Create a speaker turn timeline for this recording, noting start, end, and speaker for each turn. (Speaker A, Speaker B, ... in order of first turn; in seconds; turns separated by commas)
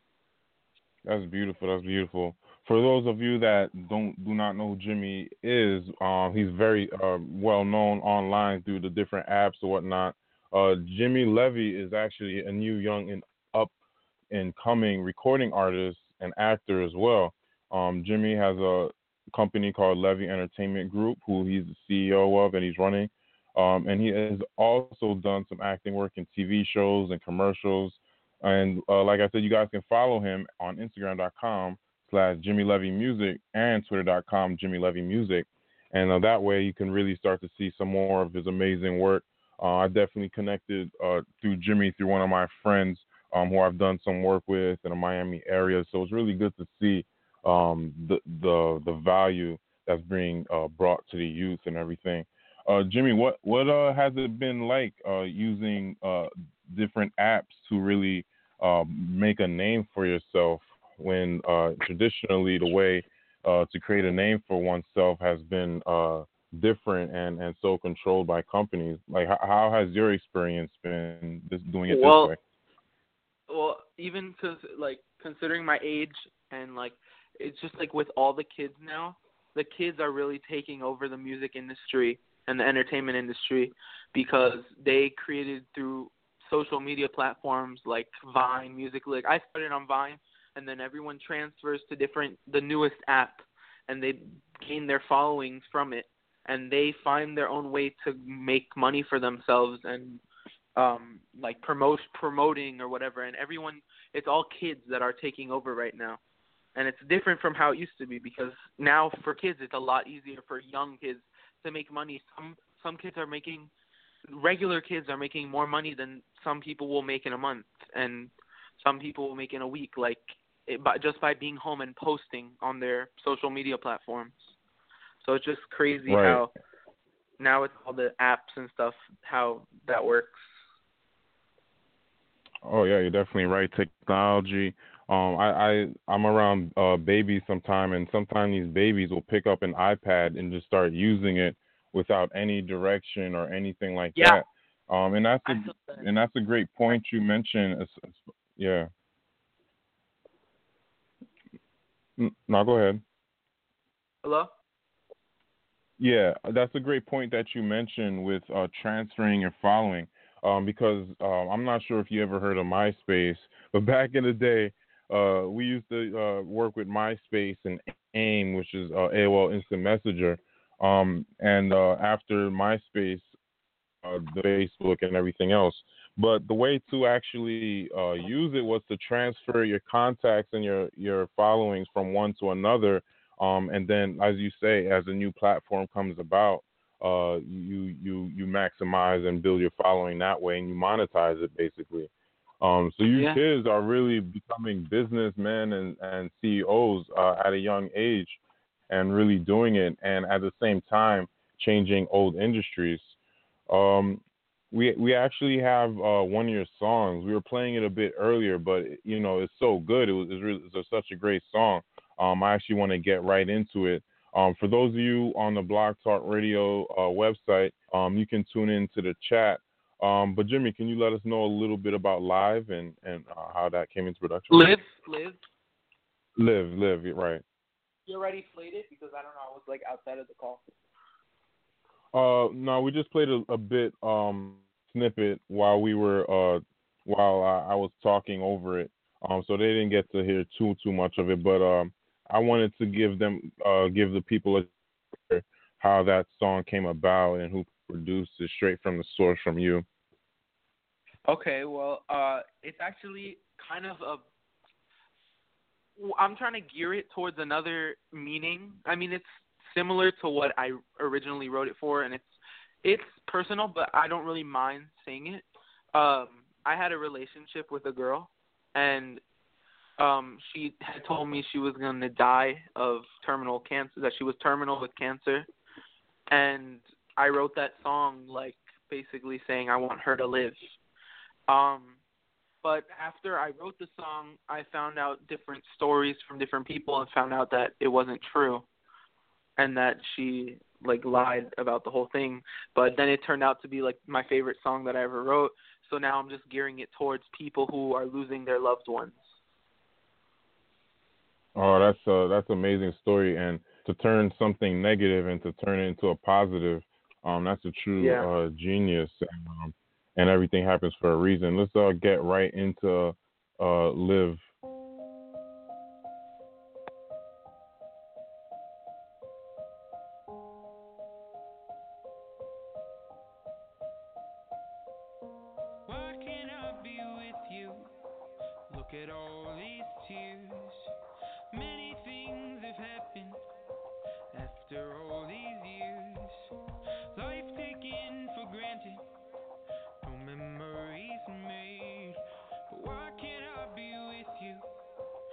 Speaker A: 1.1-13.7, Speaker A: 14.3-72.4, Speaker B: 71.9-72.3, Speaker B: 73.5-100.2, Speaker B: 100.8-106.2, Speaker B: 106.8-113.7, Speaker B: 114.3-124.5, Speaker B: 125.2-126.5, Speaker A: 126.1-126.4, Speaker B: 127.4-130.4, Speaker A: 132.6-148.9, Speaker B: 144.2-144.4, Speaker B: 145.5-146.0, Speaker A: 152.2-153.0, Speaker B: 154.2-154.5, Speaker A: 156.0-173.3, Speaker A: 174.0-203.2, Speaker B: 193.1-193.4, Speaker A: 203.7-224.8, Speaker B: 224.5-225.4, Speaker A: 226.4-227.4, Speaker B: 228.1-230.6, Speaker A: 232.1-244.7, Speaker A: 245.3-249.8, Speaker B: 251.3-254.2, Speaker B: 256.0-262.3, Speaker B: 262.8-269.2, Speaker B: 270.0-275.5, Speaker B: 276.3-280.6, Speaker B: 281.5-282.0, Speaker B: 282.6-288.7, Speaker B: 289.6-299.3, Speaker A: 301.6-314.4, Speaker B: 308.0-308.3, Speaker C: 325.9-327.9, Speaker C: 328.7-330.9, Speaker C: 331.5-333.4, Speaker C: 334.3-336.5, Speaker C: 337.1-339.1, Speaker C: 340.0-344.7